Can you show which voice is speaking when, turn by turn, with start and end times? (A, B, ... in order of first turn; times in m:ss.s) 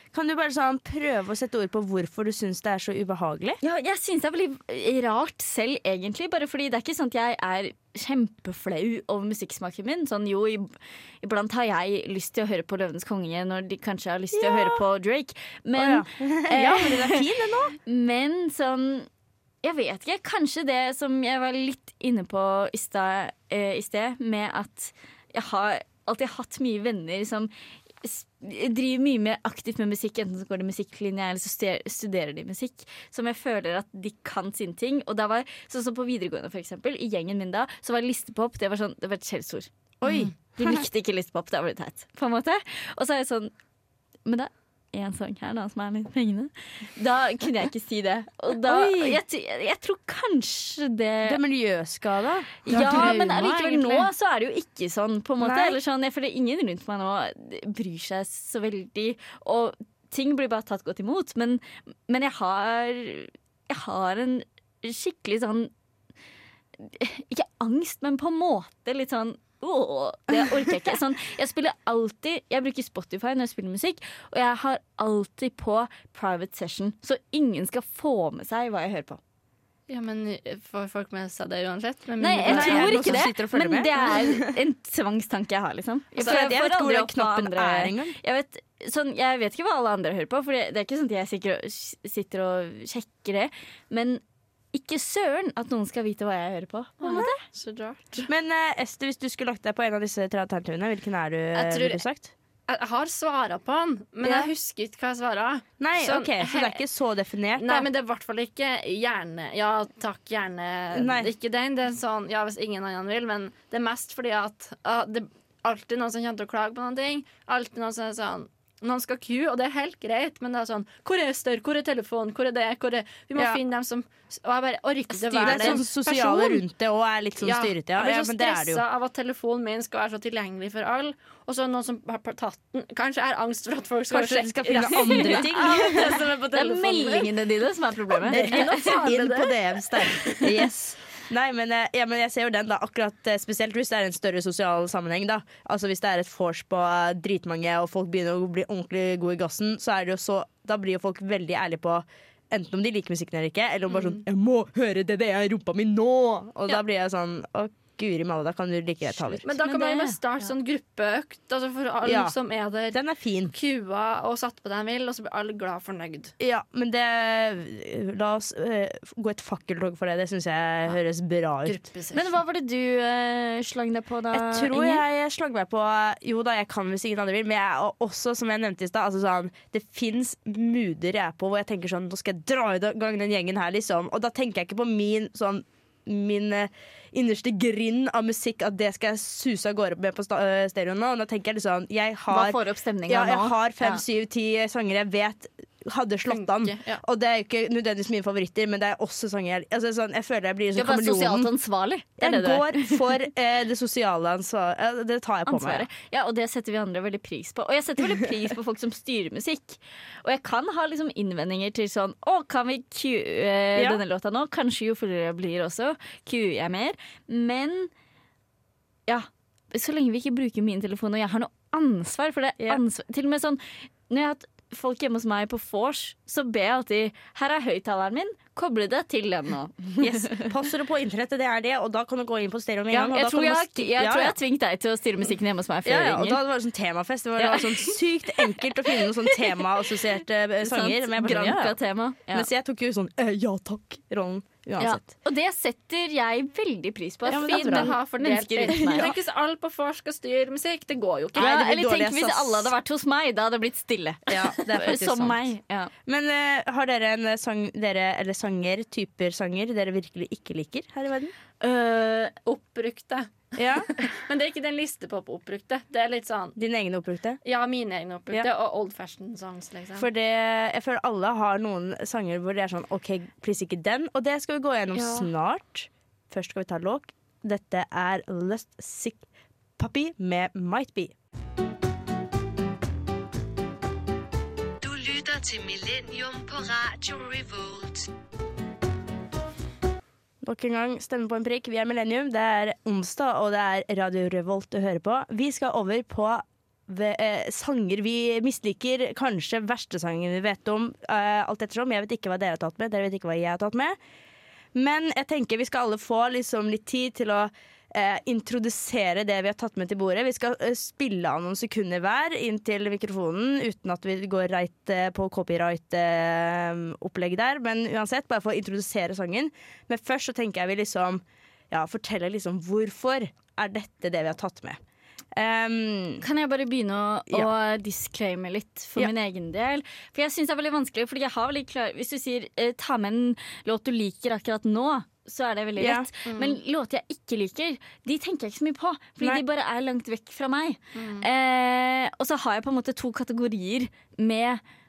0:00.1-0:03.6 A
0:03.6-0:17.2 B
0:14.3-0:14.8 A
0:15.8-0:17.7 A
0:17.8-0:19.1 B
0:19.6-0:27.5 B
0:28.0-0:39.7 B
0:40.0-0:40.8 A
0:40.6-0:43.5 B
0:44.2-0:51.4 B
0:48.5-0:49.2 A
0:51.2-0:54.1 A
0:52.6-1:05.7 B
0:52.7-0:53.4 C
0:55.4-0:55.8 A
1:06.8-1:19.2 B
1:10.3-1:10.9 A
1:19.9-1:23.2 C
1:22.2-1:34.2 B
1:22.5-1:24.6 A
1:26.2-1:28.2 A
1:34.7-1:37.4 B
1:37.0-1:38.3 C
1:38.3-1:42.3 A
1:41.6-1:42.0 C
1:42.7-1:46.8 C
1:44.2-1:44.5 A
1:45.8-1:47.9 A
1:47.6-2:06.6 C
1:50.9-1:51.3 A
2:05.1-2:08.8 A
2:05.4-2:05.8 B
2:07.4-2:17.3 C
2:14.1-2:16.5 A
2:14.9-2:18.9 B
2:18.2-2:20.5 C
2:18.3-2:39.4 A
2:33.9-2:34.2 C
2:39.2-2:40.5 B
2:39.4-2:46.3 C
2:42.0-2:42.4 A
2:42.9-2:43.5 A
2:46.4-2:51.8 A
2:51.6-2:52.3 C
2:52.1-2:55.0 B
2:54.3-3:21.5 A
3:12.3-3:14.0 B
3:16.3-3:17.0 C
3:20.8-3:23.0 B
3:22.2-3:25.9 A
3:25.5-3:37.9 B
3:33.7-3:34.0 A
3:39.1-3:50.5 B
3:50.0-3:54.4 A
3:52.9-3:56.4 B
3:55.8-4:05.0 A
3:57.4-3:59.4 B
4:00.6-4:02.5 B
4:04.8-4:09.1 B
4:07.3-4:07.9 A
4:07.3-4:11.5 C
4:11.4-4:12.7 A
4:11.4-4:15.9 B
4:14.3-4:15.5 A
4:16.1-4:21.3 A
4:21.6-4:22.4 B
4:22.4-4:26.6 C
4:23.6-4:23.9 A
4:26.6-4:27.4 A
4:27.4-4:30.1 C
4:30.0-4:39.2 A
4:34.9-4:35.3 C
4:39.8-4:41.1 A
4:44.8-4:48.1 D
4:50.4-5:04.0 A
5:04.7-5:24.8 A
5:25.4-5:26.2 A
5:26.2-5:44.6 B
5:35.8-5:36.1 A
5:36.3-5:36.6 C
5:40.9-5:41.2 C